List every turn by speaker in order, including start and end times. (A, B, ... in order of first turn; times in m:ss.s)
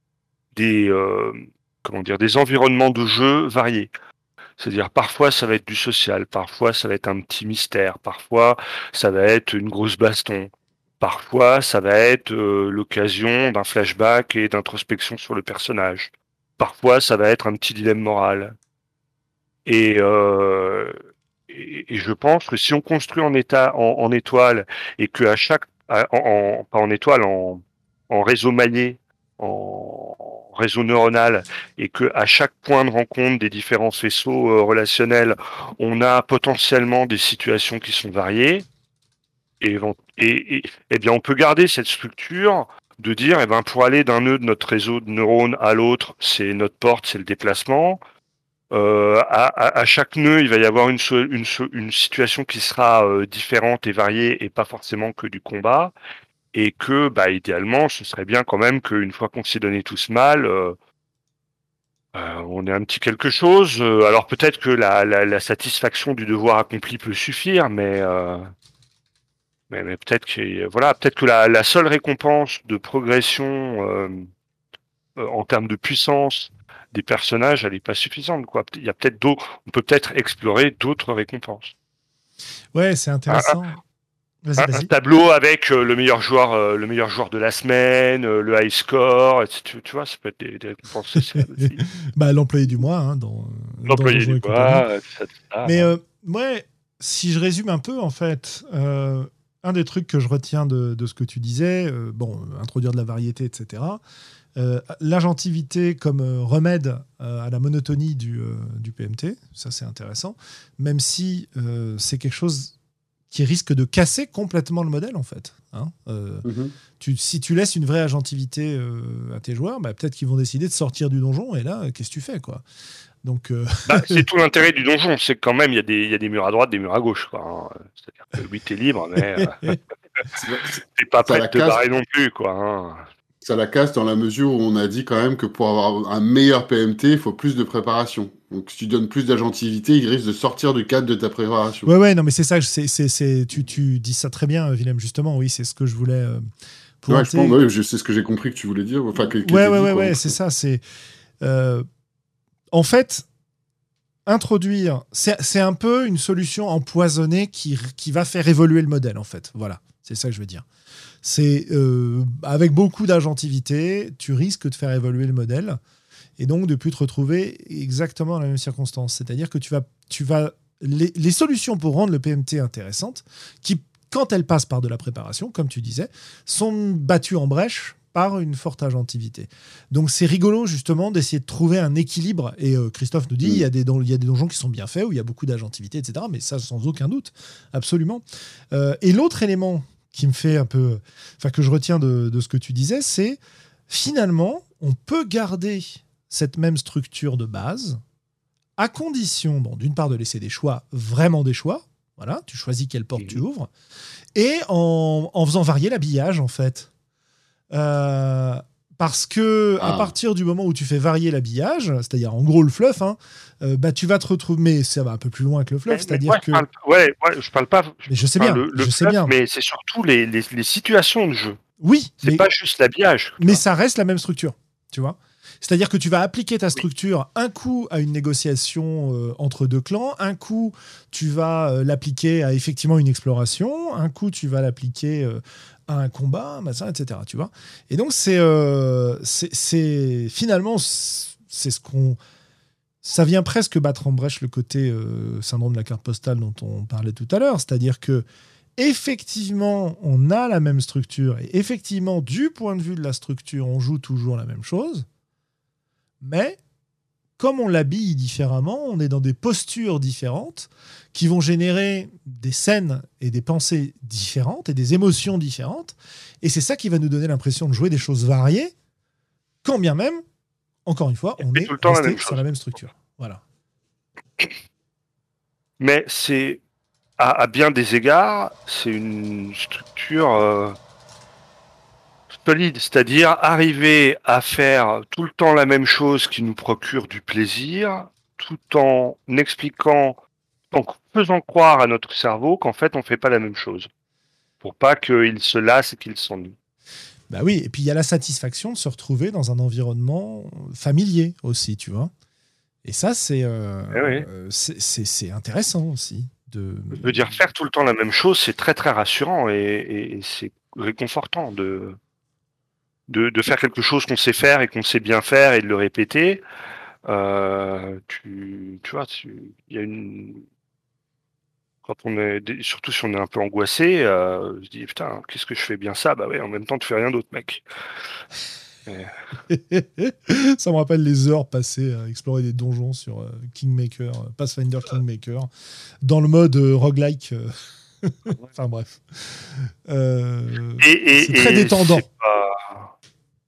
0:00.6-0:03.9 A
0:04.6-0:18.6 A
0:19.7-0:21.0 A
0:21.5-0:38.7 A
0:39.6-0:48.0 A
0:48.7-0:55.9 A
0:56.5-1:00.8 A
1:02.1-1:08.5 A
1:09.7-1:14.3 A
1:15.2-1:21.7 A
1:22.7-1:23.8 B
1:23.3-1:23.6 A
1:24.4-1:24.9 B
1:24.6-1:31.8 A
1:31.4-1:34.8 B
1:33.9-1:35.9 A
1:35.6-1:44.0 B
1:44.6-1:52.7 B
1:53.3-1:56.5 B
1:56.4-1:56.7 C
1:57.0-2:02.6 B
2:03.2-2:04.2 B
2:03.9-2:09.8 A
2:09.4-2:09.8 B
2:10.4-2:11.8 C
2:11.0-2:13.1 A
2:13.4-2:21.9 C
2:21.9-2:26.4 B
2:27.0-2:27.6 B
2:27.1-2:30.4 C
2:29.4-2:30.8 B
2:31.4-2:31.9 B
2:32.7-2:33.3 B
2:34.3-2:40.7 B
2:41.2-2:45.8 B
2:46.4-3:18.0 B
3:18.8-3:23.7 B
3:24.4-3:26.9 B
3:27.7-3:36.7 B
3:29.8-3:30.1 C
3:35.9-3:41.6 A
3:38.1-3:39.4 B
3:41.8-3:42.5 B
3:42.2-3:43.6 A
3:43.4-4:02.2 B
4:03.0-4:08.3 B
4:08.8-4:15.1 B
4:16.2-4:16.6 B
4:17.4-4:28.7 B
4:29.6-4:30.2 B
4:30.8-4:33.4 B
4:31.4-4:32.4 A
4:35.8-4:36.6 A
4:37.2-4:40.8 A
4:42.3-4:50.2 A
4:50.7-4:53.9 A
4:54.6-4:56.6 A
4:57.3-5:02.1 B
5:02.8-5:07.4 B
5:03.9-5:04.3 A
5:06.9-5:12.0 A
5:13.1-5:16.4 A
5:17.1-5:20.5 A
5:21.8-5:27.6 A
5:28.9-5:29.1 A
5:29.5-5:35.5 B
5:36.0-5:42.1 B
5:40.8-5:42.9 A